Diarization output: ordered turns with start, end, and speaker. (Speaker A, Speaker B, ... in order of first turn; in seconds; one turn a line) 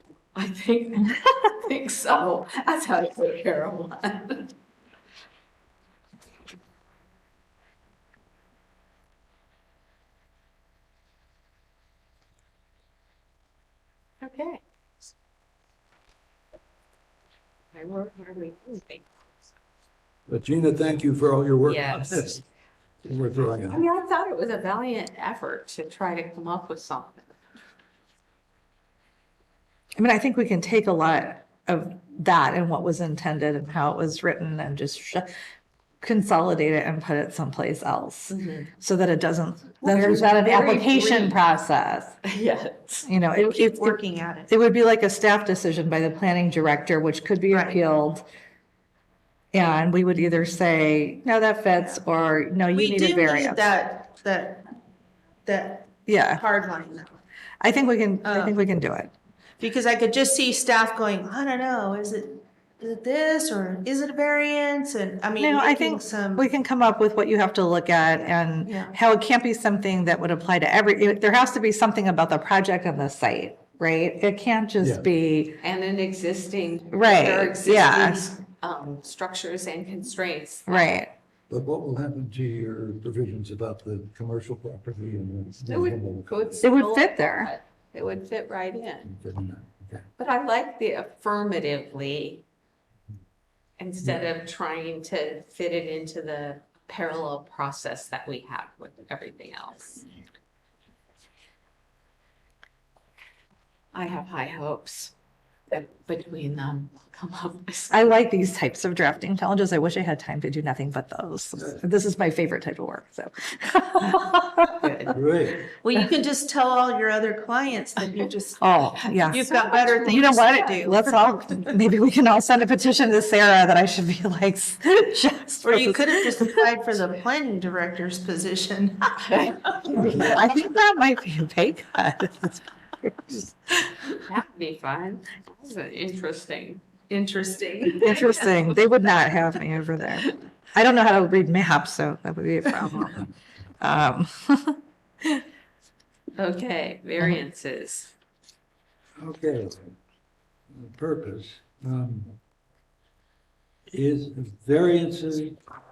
Speaker A: 0.3-4.5
Speaker A: 14.2-14.6
Speaker A: 17.7-19.5
Speaker B: 20.3-22.4
Speaker A: 21.6-22.4
Speaker B: 23.1-23.9
Speaker A: 23.6-27.4
Speaker C: 30.0-35.3
Speaker C: 36.0-42.2
Speaker A: 38.3-38.7
Speaker A: 39.8-41.4
Speaker A: 42.2-43.1
Speaker C: 43.1-48.2
Speaker D: 43.4-44.5
Speaker D: 47.5-47.8
Speaker C: 49.5-53.6
Speaker D: 52.7-54.6
Speaker D: 55.5-57.2
Speaker C: 56.1-56.5
Speaker C: 57.6-59.1
Speaker D: 58.2-58.6
Speaker D: 59.6-66.5
Speaker C: 65.4-75.6
Speaker D: 68.7-69.0
Speaker B: 74.8-75.1
Speaker A: 75.6-80.9
Speaker C: 76.9-78.3
Speaker C: 80.7-81.1
Speaker B: 81.5-86.6
Speaker A: 85.7-89.1
Speaker C: 86.6-87.5
Speaker B: 89.0-90.1
Speaker A: 90.2-92.4
Speaker A: 93.8-100.1
Speaker A: 103.9-105.1
Speaker A: 105.7-108.0
Speaker C: 107.9-114.7
Speaker A: 114.0-115.6
Speaker B: 115.1-115.7
Speaker D: 115.7-118.6
Speaker C: 118.6-126.7
Speaker D: 119.2-121.3
Speaker A: 119.3-120.3
Speaker D: 125.6-129.2
Speaker A: 129.2-130.2
Speaker C: 129.9-132.6
Speaker C: 133.3-133.7
Speaker A: 134.2-138.9
Speaker C: 137.9-143.3
Speaker C: 143.8-144.8
Speaker A: 146.4-148.1
Speaker B: 149.2-149.9
Speaker B: 150.7-152.4
Speaker B: 153.9-155.6